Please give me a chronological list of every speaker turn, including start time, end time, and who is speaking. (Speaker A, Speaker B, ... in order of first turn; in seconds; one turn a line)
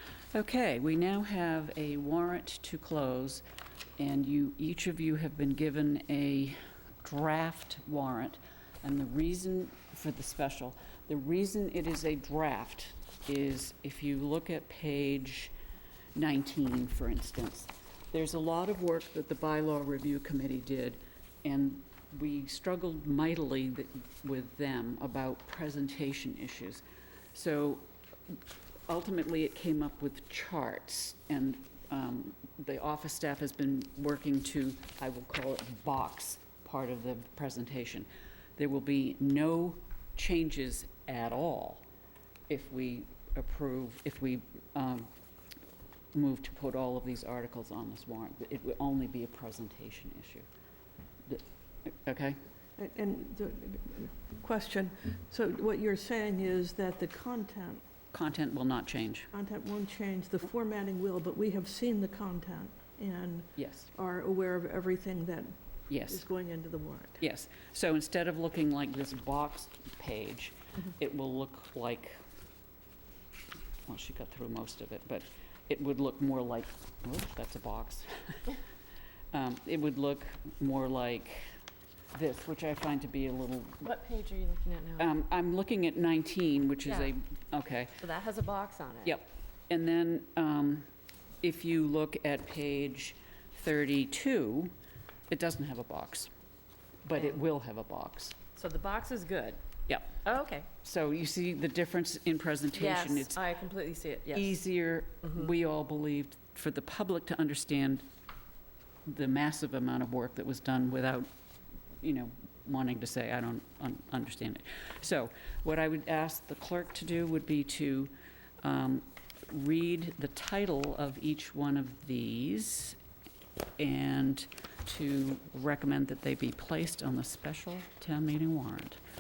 Speaker A: 0.3-3.4
Speaker A: 4.0-15.5
Speaker A: 16.1-27.9
Speaker A: 28.9-41.9
Speaker A: 42.5-45.1
Speaker A: 46.1-50.5
Speaker A: 51.3-52.4
Speaker B: 52.8-57.8
Speaker A: 58.1-59.3
Speaker B: 59.3-65.6
Speaker A: 63.6-63.9
Speaker A: 65.9-66.3
Speaker B: 66.1-67.2
Speaker A: 67.2-72.2
Speaker A: 73.9-78.5
Speaker A: 79.3-81.5
Speaker A: 82.1-83.9
Speaker C: 83.8-85.1
Speaker A: 85.0-88.0
Speaker C: 86.8-87.1
Speaker C: 88.0-89.2
Speaker A: 89.0-90.9
Speaker A: 91.4-94.7
Speaker A: 95.3-96.3
Speaker A: 97.0-98.4
Speaker C: 97.2-97.4
Speaker C: 98.6-99.6
Speaker A: 99.9-100.2
Speaker C: 100.2-100.7
Speaker A: 100.8-103.4
Speaker C: 102.7-104.6
Speaker A: 104.3-108.1
Speaker A: 109.1-111.3
Speaker A: 112.0-123.0
Speaker A: 123.8-129.0